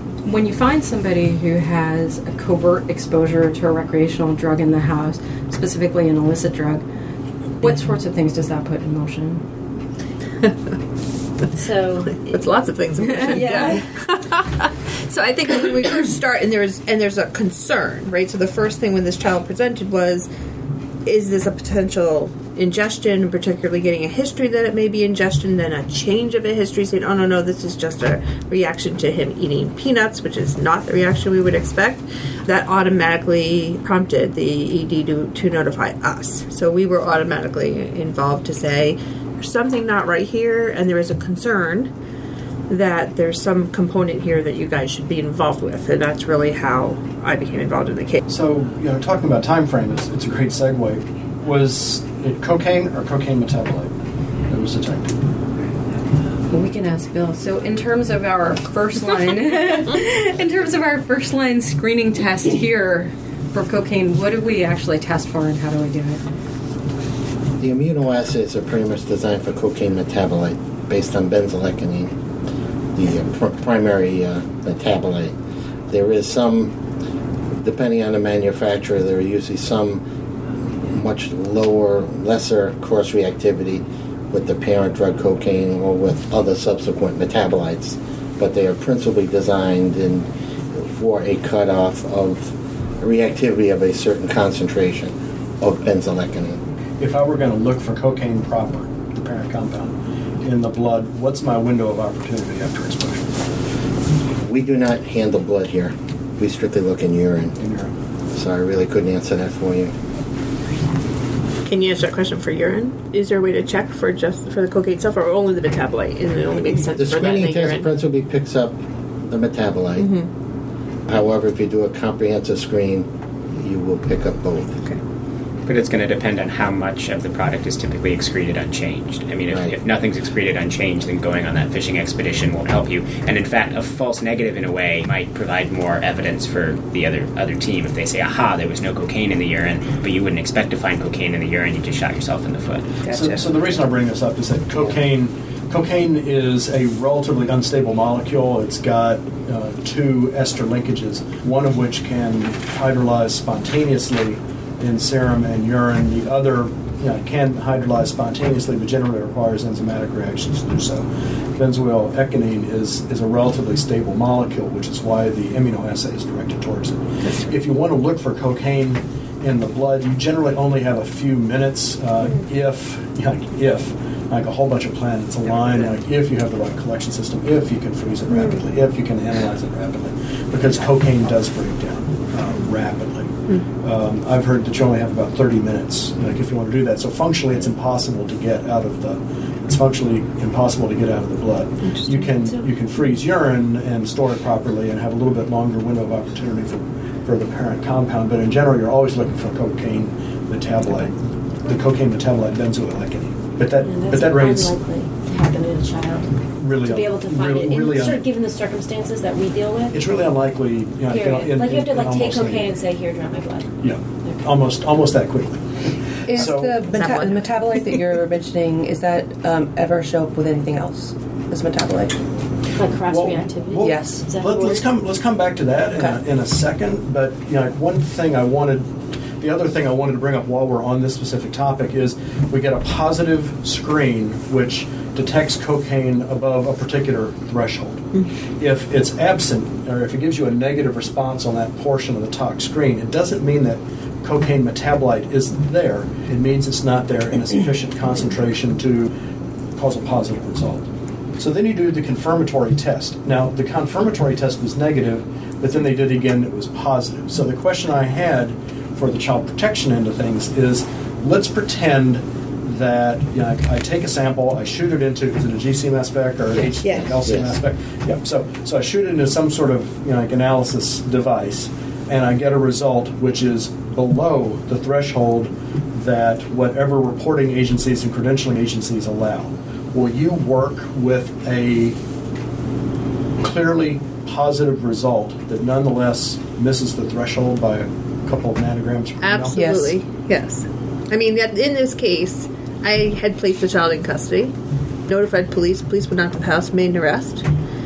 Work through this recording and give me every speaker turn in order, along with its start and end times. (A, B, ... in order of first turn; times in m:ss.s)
0:00.2-0:06.8 A
0:07.6-0:09.4 A
0:11.5-0:12.3 B
0:12.3-0:20.3 C
0:13.1-0:13.9 B
0:21.0-0:41.9 C
0:42.7-0:48.2 C
0:48.3-0:53.9 D
0:54.5-0:55.2 D
0:56.5-1:06.2 A
1:07.6-1:12.2 E
1:12.9-1:15.3 E
1:15.9-1:16.8 E
1:17.6-1:20.0 E
1:20.6-1:36.6 E
1:37.0-1:43.3 D
1:44.4-1:47.5 E
1:47.6-1:47.9 D
1:48.3-1:49.9 E
1:51.6-1:57.9 C
1:56.9-2:00.1 E
2:00.0-2:00.3 C
2:01.1-2:04.8 E
2:05.6-2:22.9 F
2:09.5-2:09.7 E
2:23.0-3:24.7 D
2:23.1-2:23.3 C
2:58.3-2:58.6 B
3:12.2-3:12.6 B
3:23.8-3:30.0 B
3:26.6-3:28.2 D
3:29.9-3:32.7 D
3:31.1-3:34.5 B
3:33.8-3:35.7 D
3:36.2-3:36.9 D
3:36.3-3:42.2 G
3:36.4-3:37.9 C
3:42.7-3:44.8 B
3:43.1-3:58.0 D
3:43.8-3:44.2 G
3:58.6-4:09.1 D
4:09.8-4:42.0 D
4:26.8-4:27.1 C
4:27.2-4:27.6 E
4:43.4-4:49.9 D
4:49.2-4:54.5 C
4:55.1-4:57.4 C